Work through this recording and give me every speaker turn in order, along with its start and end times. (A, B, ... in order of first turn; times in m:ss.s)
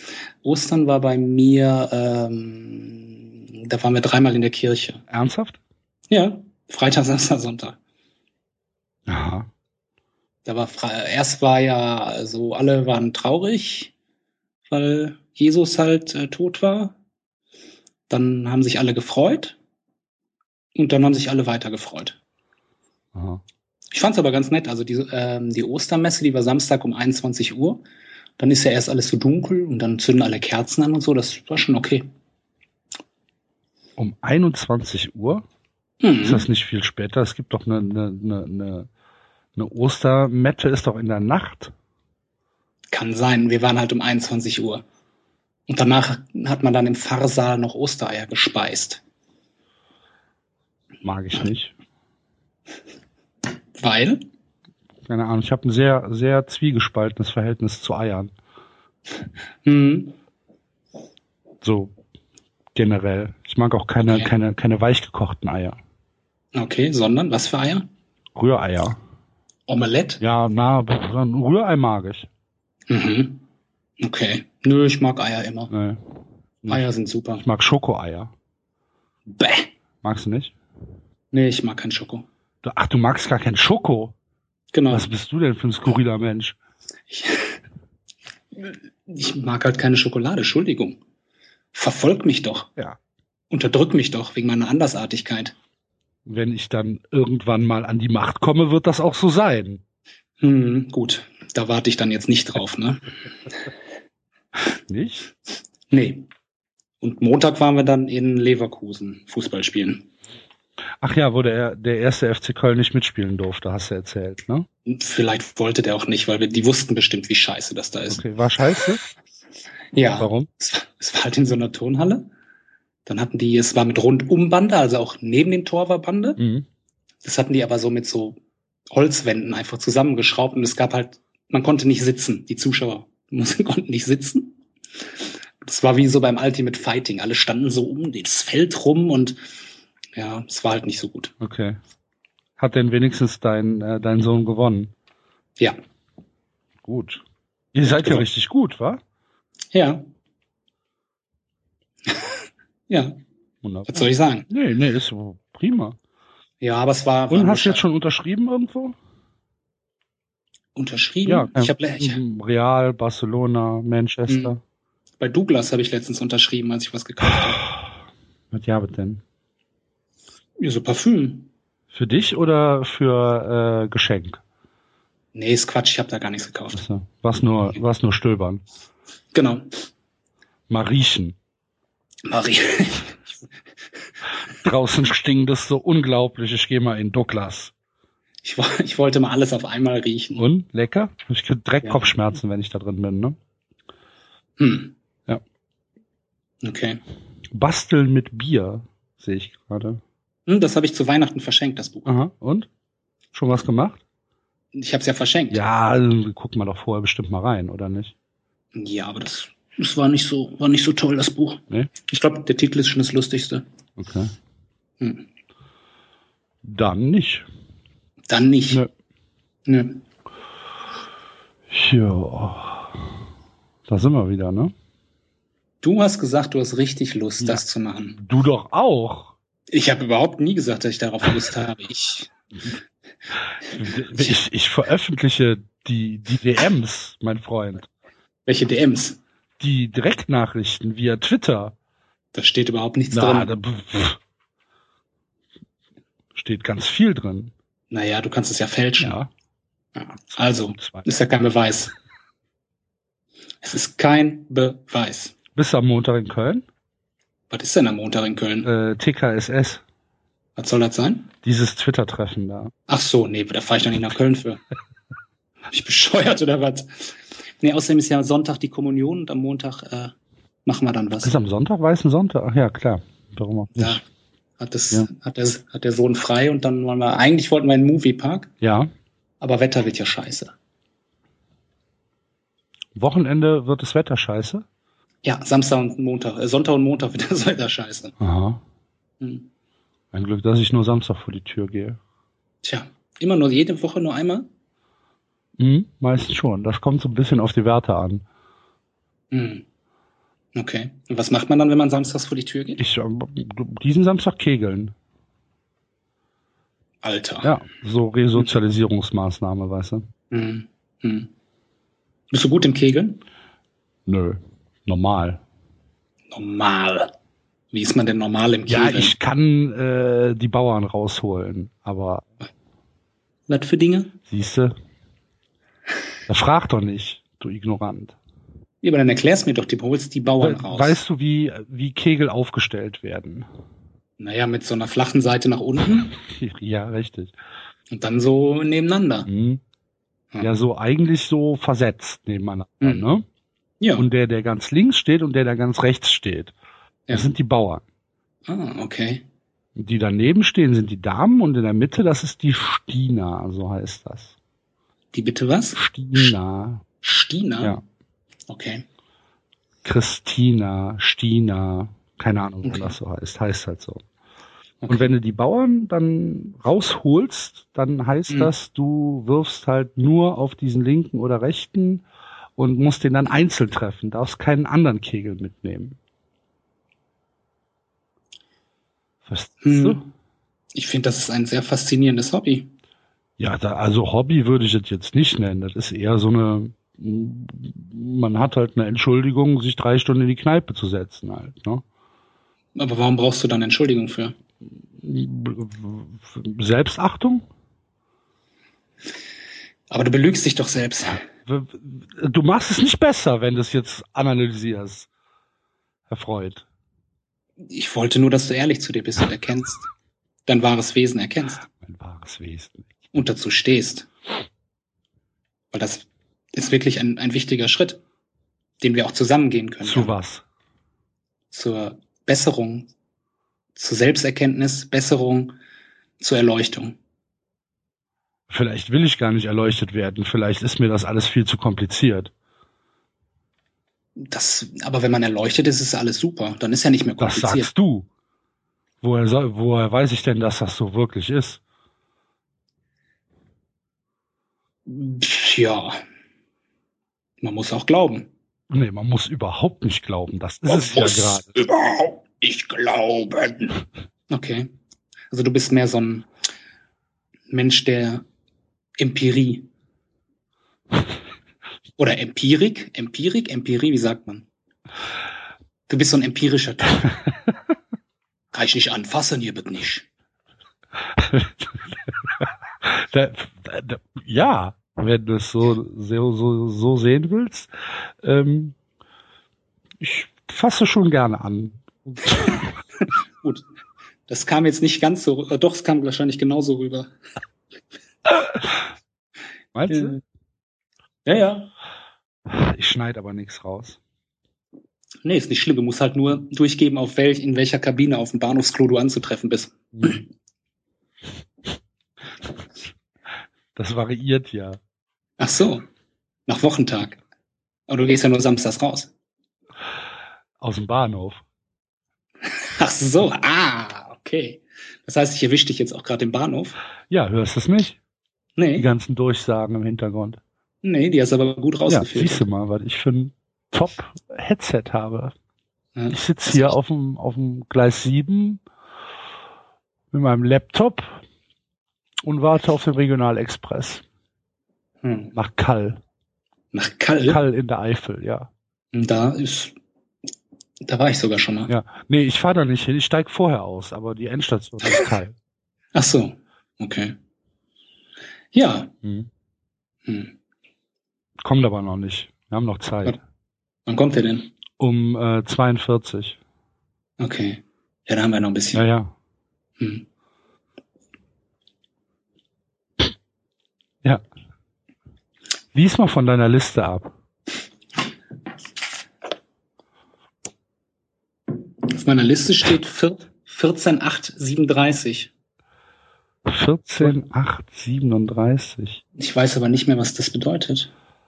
0:00.4-0:05.0 A
0:05.1-0:05.6 B
0:06.1-0:07.8 A
0:09.1-0:09.5 B
0:10.4-0:13.9 A
0:14.7-0:16.9 A
0:18.1-0:19.6 A
0:20.7-0:22.2 A
0:23.1-0:23.4 B
0:23.9-0:27.8 A
0:28.4-0:32.1 A
0:34.0-0:35.4 B
0:36.0-0:36.4 A
0:36.2-0:38.9 B
0:39.6-0:41.7 B
0:42.9-0:44.8 A
0:45.7-0:49.0 A
0:51.0-0:51.7 B
0:53.8-0:54.2 A
0:55.0-0:58.3 B
0:59.6-1:00.2 A
1:01.6-1:01.9 B
1:02.7-1:05.8 B
1:04.0-1:04.3 A
1:06.5-1:07.9 A
1:08.3-1:09.0 B
1:09.7-1:10.2 A
1:10.2-1:12.3 B
1:12.9-1:13.4 A
1:14.0-1:15.7 A
1:15.7-1:16.0 B
1:16.7-1:17.4 A
1:17.4-1:18.3 B
1:19.3-1:19.7 A
1:20.0-1:20.5 B
1:21.3-1:22.2 A
1:22.6-1:24.1 B
1:24.7-1:25.1 A
1:24.9-1:26.6 B
1:27.1-1:27.6 A
1:28.6-1:31.0 A
1:31.7-1:32.7 A
1:33.5-1:35.5 A
1:36.2-1:39.8 B
1:40.4-1:43.1 A
1:44.9-1:45.3 B
1:45.9-1:46.3 A
1:47.0-1:50.1 A
1:51.0-1:54.7 B
1:54.8-1:58.2 A
1:58.1-1:59.0 B
1:59.9-2:02.3 A
2:00.2-2:00.5 B
2:03.0-2:06.4 A
2:06.4-2:06.7 B
2:07.2-2:08.4 A
2:08.9-2:14.6 A
2:15.6-2:19.4 A
2:20.2-2:21.3 A
2:21.4-2:21.8 B
2:22.6-2:24.9 B
2:26.8-2:27.2 B
2:27.7-2:29.0 B
2:27.8-2:28.2 A
2:29.7-2:30.0 A
2:32.9-2:33.2 A
2:33.6-2:36.0 B
2:33.9-2:34.5 A
2:36.6-2:37.8 A
2:37.3-2:39.0 B
2:40.7-2:42.2 A
2:41.2-2:44.6 B
2:44.3-2:44.5 A
2:45.2-2:47.6 A
2:47.6-2:47.9 B
2:48.5-2:49.2 B
2:50.6-2:51.5 A
2:51.9-2:54.4 B
2:55.3-2:56.8 A
2:56.7-2:58.6 B
2:59.3-2:59.7 A
3:00.7-3:01.4 B
3:02.2-3:03.4 A
3:04.6-3:07.7 B
3:08.4-3:10.4 A
3:10.3-3:13.4 B
3:14.6-3:14.9 A
3:16.6-3:17.0 A
3:17.5-3:20.0 B
3:20.5-3:22.1 A
3:22.0-3:22.7 B
3:23.3-3:24.0 B
3:24.7-3:25.6 A
3:25.5-3:28.1 B
3:28.7-3:33.6 A
3:34.0-3:34.3 B
3:35.0-3:35.2 A
3:36.6-3:37.4 B
3:38.3-3:38.8 A
3:39.6-3:40.0 A
3:41.7-3:43.0 B
3:43.9-3:44.7 B
3:45.8-3:48.2 A
3:48.2-3:49.3 B
3:49.7-3:52.3 A
3:53.6-3:57.9 B
3:54.0-3:54.4 A
3:58.4-3:59.2 A
3:59.6-4:01.8 B
4:02.3-4:03.5 A
4:03.1-4:04.2 B
4:06.3-4:07.5 B
4:07.9-4:09.2 A
4:09.0-4:09.3 B
4:10.0-4:11.9 A
4:10.8-4:11.0 B
4:13.6-4:15.4 A
4:15.5-4:16.6 B
4:17.5-4:18.7 A
4:18.6-4:19.8 B
4:20.6-4:21.3 A
4:21.4-4:22.7 B
4:22.9-4:24.6 A
4:25.7-4:30.1 A
4:30.6-4:31.3 A
4:31.2-4:34.0 B
4:33.8-4:34.0 A
4:34.6-4:38.5 A
4:38.6-4:38.9 B
4:39.4-4:40.5 A
4:42.9-4:44.6 B
4:45.2-4:48.1 A
4:48.2-4:48.6 B
4:49.2-4:49.5 A
4:50.1-4:52.0 B
4:52.6-4:54.5 A
4:55.6-4:58.2 B
4:59.3-4:59.6 A
5:00.5-5:02.8 A
5:02.8-5:04.9 B
5:07.0-5:07.5 A
5:07.4-5:10.0 B
5:10.3-5:11.3 A
5:12.3-5:13.2 A
5:14.0-5:15.4 B
5:16.3-5:17.1 A
5:17.7-5:19.1 A
5:18.7-5:22.2 B
5:23.5-5:24.1 A
5:24.3-5:24.7 B
5:26.3-5:28.2 B
5:28.8-5:31.0 A
5:30.4-5:33.5 B
5:34.2-5:36.1 A
5:36.2-5:37.3 B
5:37.9-5:39.3 A
5:39.3-5:39.6 B
5:40.4-5:43.2 B
5:42.8-5:43.0 A
5:43.8-5:44.1 A
5:44.0-5:46.5 B
5:47.1-5:47.8 B
5:48.5-5:49.2 A
5:49.8-5:54.3 B
5:55.1-5:55.8 A
5:55.8-5:56.8 B
5:57.0-5:57.8 A
5:58.5-5:58.8 A
5:59.8-6:04.0 B
6:02.6-6:02.9 A
6:04.8-6:05.1 A
6:04.9-6:12.0 B
6:12.6-6:16.0 B
6:19.2-6:20.0 B
6:19.6-6:20.1 A
6:20.7-6:22.7 A
6:23.4-6:31.8 B
6:32.7-6:34.4 A
6:35.0-6:37.4 B
6:39.9-6:41.2 A
6:41.4-6:45.1 B
6:46.1-6:46.6 B
6:47.7-6:49.9 A
6:50.4-6:51.6 A
6:51.7-6:52.9 B
6:53.1-6:54.1 A
6:55.7-6:58.0 A
6:58.8-7:00.2 A
6:59.8-7:00.4 B
7:01.5-7:02.9 A
7:03.7-7:05.6 A
7:06.2-7:07.0 A
7:08.5-7:12.3 B
7:14.2-7:17.7 A
7:17.2-7:18.1 B
7:19.0-7:21.6 B
7:24.9-7:26.0 A
7:27.4-7:28.3 A
7:28.7-7:31.5 B
7:30.7-7:33.8 A
7:34.3-7:34.7 A
7:35.3-7:36.3 A
7:37.5-7:38.2 A
7:39.0-7:39.7 A
7:42.0-7:44.4 A
7:45.9-7:47.1 A
7:48.5-7:50.0 A
7:51.1-7:58.8 B
8:00.0-8:02.6 B
8:04.3-8:07.1 A
8:09.7-8:10.2 B
8:09.9-8:10.2 A
8:11.2-8:11.7 A
8:12.5-8:14.0 B
8:15.2-8:20.2 A
8:23.7-8:24.8 B
8:25.4-8:25.8 A
8:26.5-8:27.2 A
8:27.9-8:29.1 A
8:30.6-8:31.4 B
8:32.6-8:36.8 A
8:37.1-8:38.0 B
8:38.6-8:38.9 A
8:38.8-8:40.4 B
8:40.8-8:42.4 A
8:41.9-8:45.3 B
8:46.0-8:46.7 A
8:46.1-8:48.6 B
8:50.1-8:51.2 B
8:52.2-8:54.0 B
8:55.0-8:55.3 A
8:55.3-8:56.0 B
8:56.7-8:57.4 A
8:57.3-8:58.5 B
8:58.9-8:59.7 A
9:00.8-9:01.7 A
9:01.7-9:05.4 B
9:05.9-9:07.2 A
9:08.5-9:08.9 A
9:09.0-9:09.3 B
9:10.0-9:10.3 A
9:11.4-9:13.2 B
9:13.8-9:14.5 A
9:14.8-9:16.4 B
9:17.2-9:18.8 A
9:18.7-9:19.1 B
9:19.8-9:20.0 A
9:25.7-9:27.1 B
9:31.9-9:35.3 A
9:36.4-9:39.0 B
9:39.2-9:40.9 A